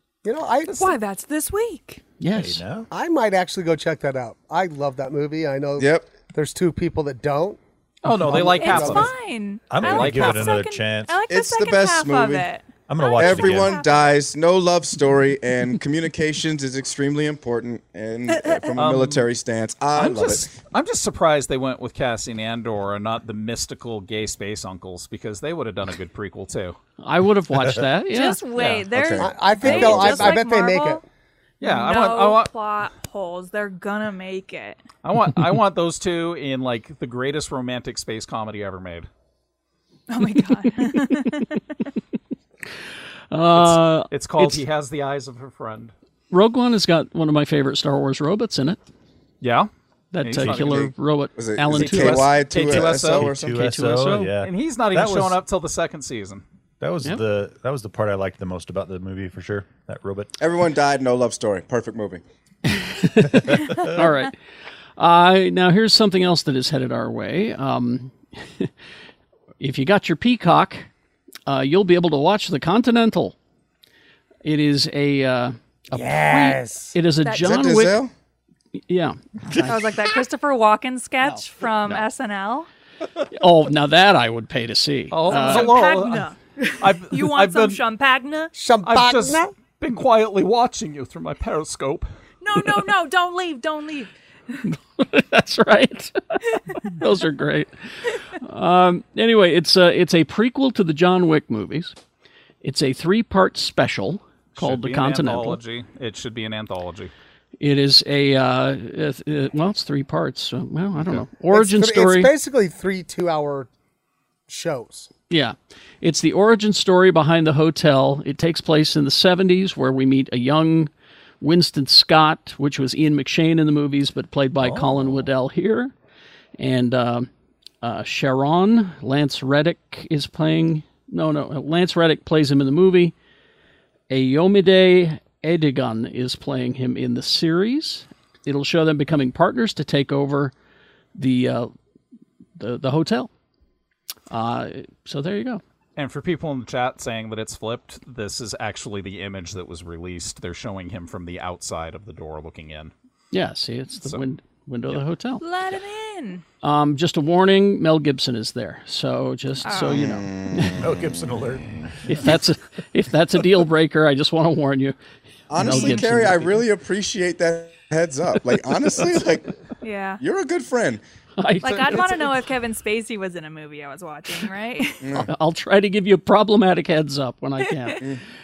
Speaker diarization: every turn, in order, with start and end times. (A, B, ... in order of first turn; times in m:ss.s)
0:00.2-0:01.0 A
0:00.7-0:02.0 B
0:02.2-0:02.6 C
0:02.3-0:02.9 D
0:02.9-0:07.6 A
0:05.8-0:06.1 E
0:08.0-0:09.1 F
0:08.2-0:09.1 A
0:08.4-0:14.2 B
0:09.7-0:11.2 D
0:09.8-0:10.6 F
0:11.3-0:12.5 E
0:12.9-0:13.8 D
0:13.2-0:20.5 E
0:18.8-0:19.2 F
0:20.0-0:26.8 F
0:27.0-0:28.4 C
0:28.1-0:31.0 B
0:28.9-0:30.4 E
0:29.2-0:31.0 A
0:31.6-0:32.5 F
0:31.6-0:34.8 B
0:35.0-0:39.1 F
0:40.1-0:41.6 B
0:43.3-0:44.6 C
0:43.6-0:45.9 F
0:46.3-0:48.8 C
0:49.4-0:49.7 F
0:50.1-0:52.4 C
0:50.2-0:50.9 F
0:50.4-0:50.9 D
0:51.4-0:53.6 E
0:51.8-0:53.3 F
0:52.6-0:55.4 D
0:53.2-0:54.4 C
0:54.4-0:56.4 F
0:56.8-1:00.3 D
1:00.4-1:02.2 E
1:02.7-1:04.3 C
1:05.0-1:08.7 C
1:09.6-1:10.9 C
1:11.5-1:13.4 C
1:14.4-1:18.0 C
1:15.9-1:17.0 A
1:17.2-1:17.6 B
1:17.4-1:18.1 E
1:18.8-1:20.0 C
1:19.6-1:22.7 B
1:23.3-1:25.7 C
1:25.1-1:27.8 F
1:25.3-1:28.5 B
1:28.6-1:29.5 A
1:28.8-1:32.1 F
1:32.4-1:34.1 B
1:34.6-1:37.7 C
1:38.4-1:42.0 C
1:42.6-1:45.6 C
1:44.6-1:47.1 F
1:47.6-1:52.3 C
1:51.5-1:53.7 A
1:54.5-1:55.1 A
1:55.3-2:00.9 C
2:01.4-2:05.9 C
2:04.6-2:05.3 D
2:06.6-2:07.3 C
2:07.8-2:13.2 C
2:14.1-2:20.5 C
2:21.2-2:21.7 C
2:22.6-2:23.3 C
2:24.3-2:25.6 C
2:26.0-2:32.9 F
2:33.3-2:35.4 C
2:35.4-2:36.4 B
2:36.6-2:40.8 C
2:39.6-2:40.1 B
2:39.9-2:41.4 E
2:40.8-2:42.4 D
2:42.1-2:45.0 C
2:45.5-2:49.5 E
2:45.6-2:46.6 C
2:45.6-2:46.0 B
2:49.8-2:50.2 B
2:50.2-2:51.0 E
2:51.4-2:52.2 C
2:51.6-2:55.2 B
2:51.7-2:52.2 F
2:55.0-2:55.3 E
2:55.2-2:58.0 C
2:57.7-2:58.1 B